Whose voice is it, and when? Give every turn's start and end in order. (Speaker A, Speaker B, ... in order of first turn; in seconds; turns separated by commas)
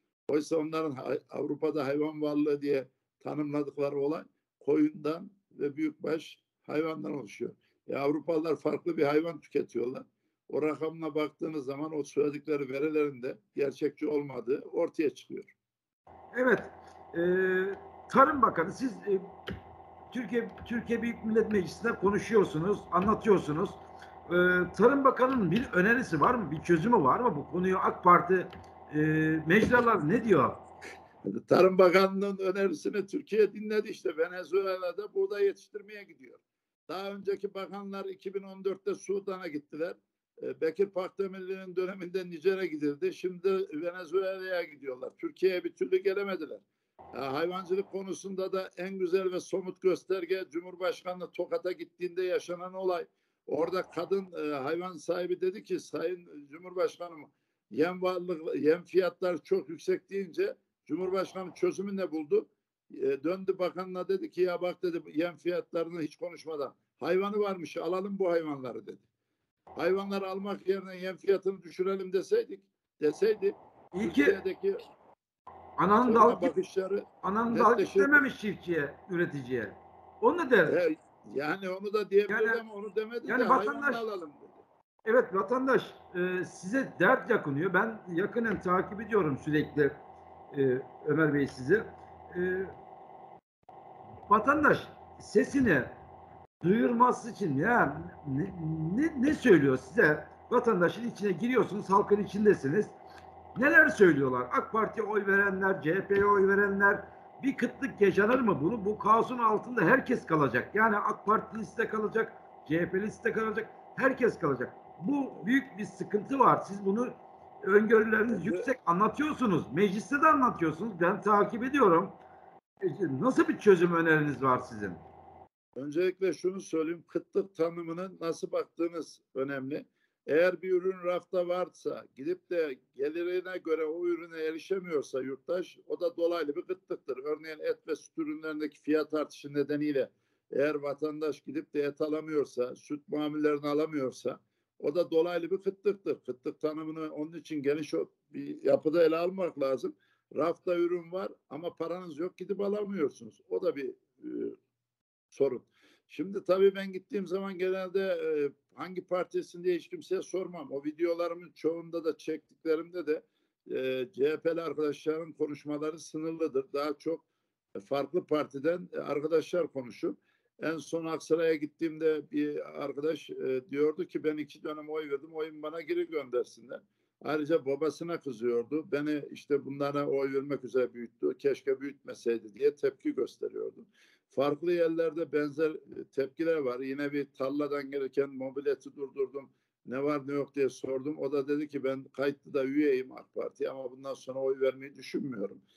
Speaker A: 0.3-15.5, Speaker B: 16.3-19.3, Speaker B: 20.1-30.6, Speaker A: 31.2-69.0, Speaker A: 69.8-74.8, Speaker B: 73.9-74.4, Speaker B: 75.8-76.5, Speaker A: 76.0-78.2, Speaker B: 77.2-80.8, Speaker A: 80.7-84.6, Speaker B: 82.3-82.6, Speaker B: 83.3-84.0, Speaker B: 85.0-90.0, Speaker B: 90.5-92.7, Speaker B: 94.3-96.0, Speaker B: 96.6-103.0, Speaker B: 103.5-122.2, Speaker A: 118.3-118.7, Speaker B: 122.8-125.0, Speaker A: 125.8-154.6, Speaker A: 155.3-167.2, Speaker A: 167.8-195.6